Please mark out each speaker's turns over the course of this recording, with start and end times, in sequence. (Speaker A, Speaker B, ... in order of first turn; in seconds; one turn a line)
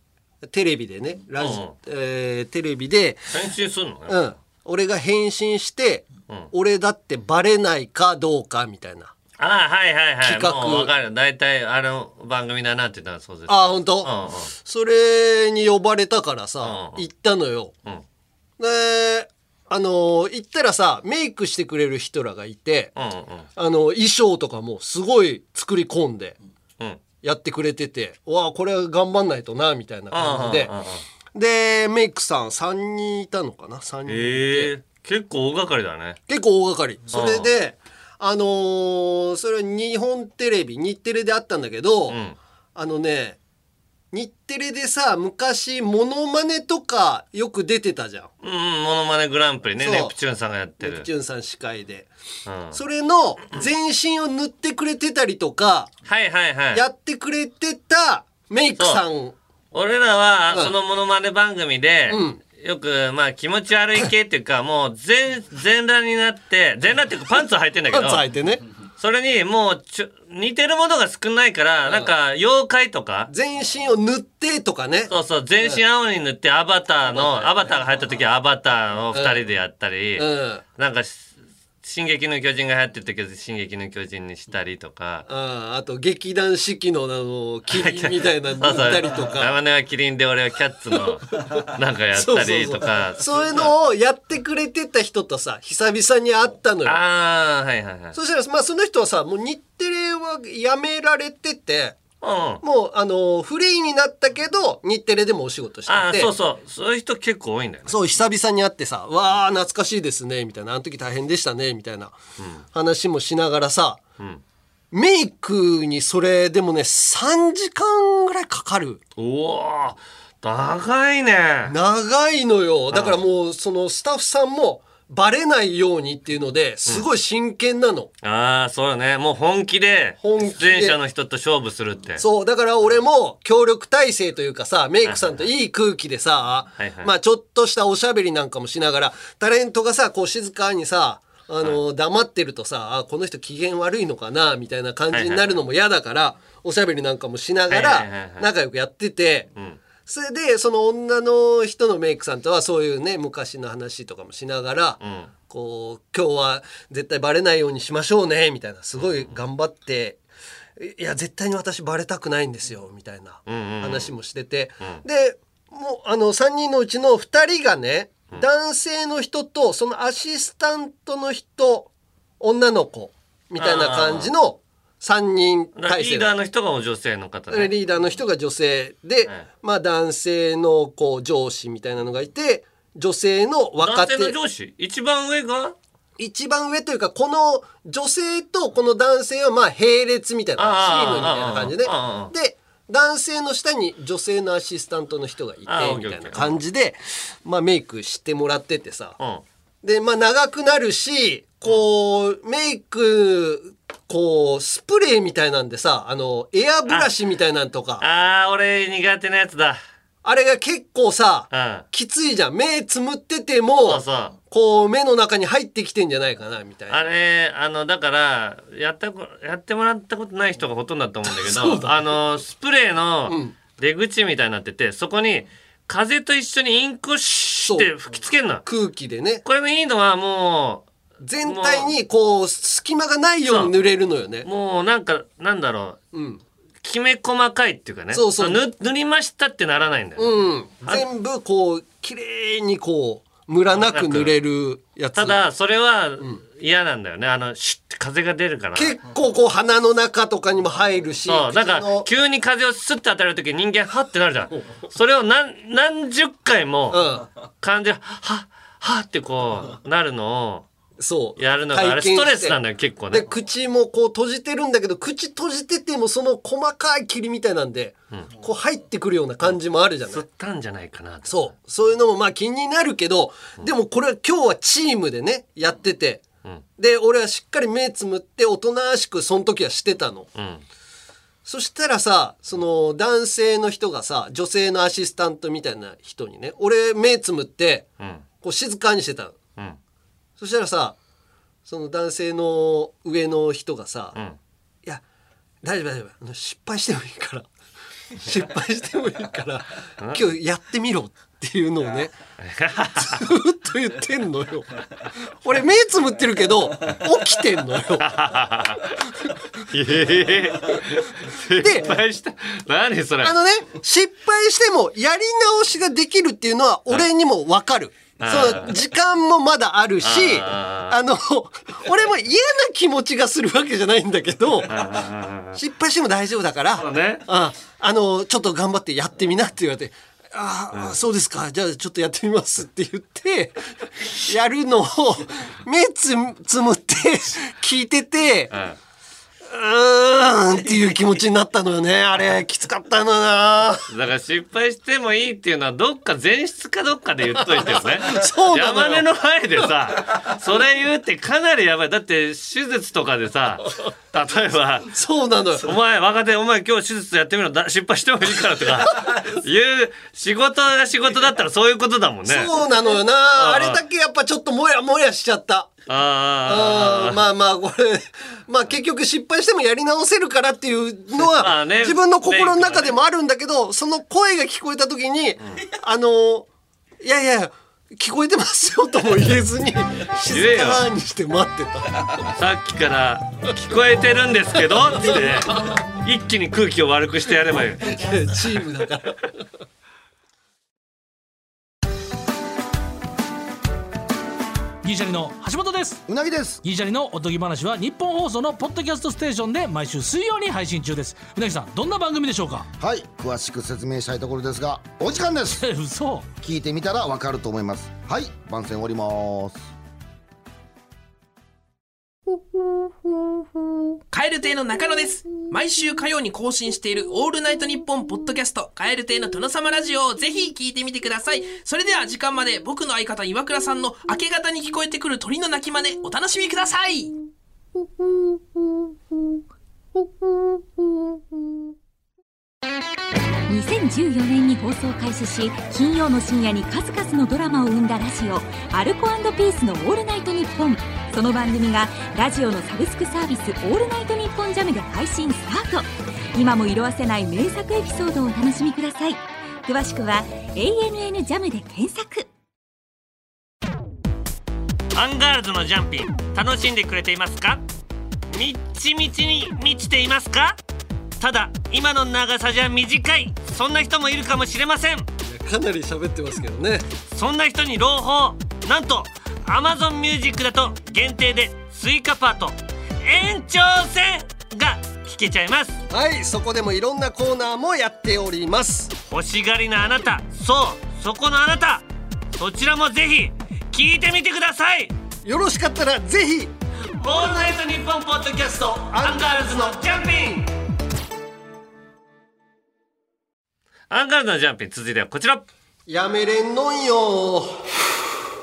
Speaker A: 0.4-3.3
Speaker B: 1.4-1.8
Speaker B: 3.3-4.3
Speaker A: 4.1-9.1
Speaker B: 9.4-14.5
Speaker A: 10.2-10.9
Speaker A: 13.5-17.7
Speaker B: 16.6-17.1
Speaker A: 18.6-22.9
Speaker B: 23.0-23.5
Speaker A: 23.6-26.4
Speaker A: 27.2-30.7
Speaker B: 30.1-31.0
Speaker A: 31.3-34.7
Speaker B: 34.1-36.2
Speaker A: 36.3-42.2
Speaker B: 37.1-37.5
Speaker B: 42.1-42.4
Speaker A: 42.8-43.4
Speaker A: 44.1-48.3
Speaker B: 48.4-51.1
Speaker A: 49.8-50.1
Speaker A: 50.8-52.1
Speaker B: 52.5-52.8
Speaker A: 52.7-55.9
Speaker B: 56.1-56.8
Speaker A: 56.7-59.4
Speaker B: 58.8-59.0
Speaker B: 59.7-68.2
Speaker A: 62.1-62.4
Speaker A: 67.9-68.6
Speaker B: 69.0-73.3
Speaker A: 71.9-72.1
Speaker A: 73.3-75.8
Speaker B: 75.1-81.3
Speaker A: 77.1-77.5
Speaker A: 79.1-79.4
Speaker A: 80.2-80.6
Speaker B: 81.8-85.3
Speaker A: 85.3-89.5
Speaker B: 87.7-93.7
Speaker A: 92.1-97.0
Speaker B: 96.8-98.2
Speaker A: 98.1-102.0
Speaker B: 102.2-102.6
Speaker A: 102.6-106.3
Speaker B: 105.9-108.0
Speaker A: 107.9-112.2
Speaker B: 112.4-112.6
Speaker A: 112.7-114.0
Speaker A: 114.9-119.0
Speaker B: 119.2-121.8
Speaker A: 121.7-128.1
Speaker B: 122.9-123.2
Speaker B: 128.2-132.2
Speaker A: 130.2-131.0
Speaker A: 132.2-149.5
Speaker B: 135.0-135.4
Speaker B: 136.8-137.1
Speaker B: 145.1-145.5
Speaker B: 147.7-148.5
Speaker A: 150.1-155.0
Speaker B: 155.0-155.3
Speaker A: 155.5-160.2
Speaker B: 159.0-159.4
Speaker A: 160.8-176.3
Speaker B: 163.5-164.1
Speaker B: 173.6-174.3
Speaker B: 175.8-177.7
Speaker A: 177.5-184.4
Speaker B: 183.8-185.8
Speaker A: 186.2-199.2
Speaker B: 190.6-192.3
Speaker B: 195.7-196.6
Speaker B: 199.2-199.4
Speaker A: 199.8-208.0
Speaker B: 208.0-209.8
Speaker A: 210.2-217.0
Speaker B: 211.5-211.9
Speaker B: 213.8-214.4
Speaker B: 216.9-228.7
Speaker A: 221.3-222.1
Speaker A: 223.3-223.6
Speaker A: 227.7-227.9
Speaker A: 228.7-229.4
Speaker B: 229.4-230.9
Speaker A: 231.2-234.5
Speaker B: 231.4-231.9
Speaker B: 233.5-233.7
Speaker B: 234.4-236.0
Speaker A: 236.1-236.4
Speaker B: 236.8-241.1
Speaker A: 238.1-238.6
Speaker A: 240.2-245.4
Speaker B: 243.7-244.4
Speaker B: 245.2-249.0
Speaker A: 248.8-252.1
Speaker B: 251.3-257.0
Speaker A: 256.9-257.3
Speaker B: 257.6-260.7
Speaker A: 261.0-262.6
Speaker B: 261.4-263.3
Speaker A: 263.1-270.2
Speaker B: 270.1-271.5
Speaker A: 271.3-276.2
Speaker A: 276.8-280.3
Speaker B: 280.4-280.6
Speaker A: 281.4-287.9
Speaker B: 288.0-288.2
Speaker A: 288.4-289.4
Speaker A: 290.4-291.0
Speaker A: 291.7-294.2
Speaker A: 295.6-297.5
Speaker A: 298.2-302.1
Speaker B: 300.0-300.3
Speaker B: 302.4-303.3
Speaker A: 303.0-304.8
Speaker A: 305.4-308.1
Speaker B: 308.0-308.9
Speaker B: 309.7-313.4
Speaker A: 311.6-311.9
Speaker A: 313.2-324.8
Speaker B: 318.2-318.8
Speaker B: 320.0-321.0
Speaker B: 324.7-325.6
Speaker A: 325.6-338.5
Speaker B: 326.8-327.3
Speaker B: 338.5-338.8
Speaker A: 339.4-343.9
Speaker B: 343.9-354.9
Speaker A: 347.4-349.1
Speaker A: 354.9-355.8
Speaker B: 355.6-362.5
Speaker A: 362.3-365.7
Speaker B: 363.4-363.8
Speaker B: 365.9-367.2
Speaker A: 366.5-376.5
Speaker B: 371.2-372.9
Speaker A: 377.0-382.2
Speaker B: 380.3-380.9
Speaker B: 382.3-388.0
Speaker A: 387.8-389.3
Speaker C: 394.8-396.0
Speaker D: 396.1-396.6
Speaker C: 396.6-402.7
Speaker D: 402.8-405.6
Speaker C: 405.6-406.3
Speaker D: 406.4-409.6
Speaker E: 414.1-427.1
Speaker F: 433.5-452.3
Speaker B: 454.9-457.6
Speaker B: 458.3-460.6
Speaker B: 461.2-465.1
Speaker A: 465.2-466.9
Speaker B: 467.1-475.8
Speaker A: 475.9-478.9
Speaker B: 479.1-484.9
Speaker A: 485.2-486.5
Speaker B: 487.0-490.5
Speaker A: 488.9-490.4
Speaker B: 493.9-495.5
Speaker A: 495.9-497.8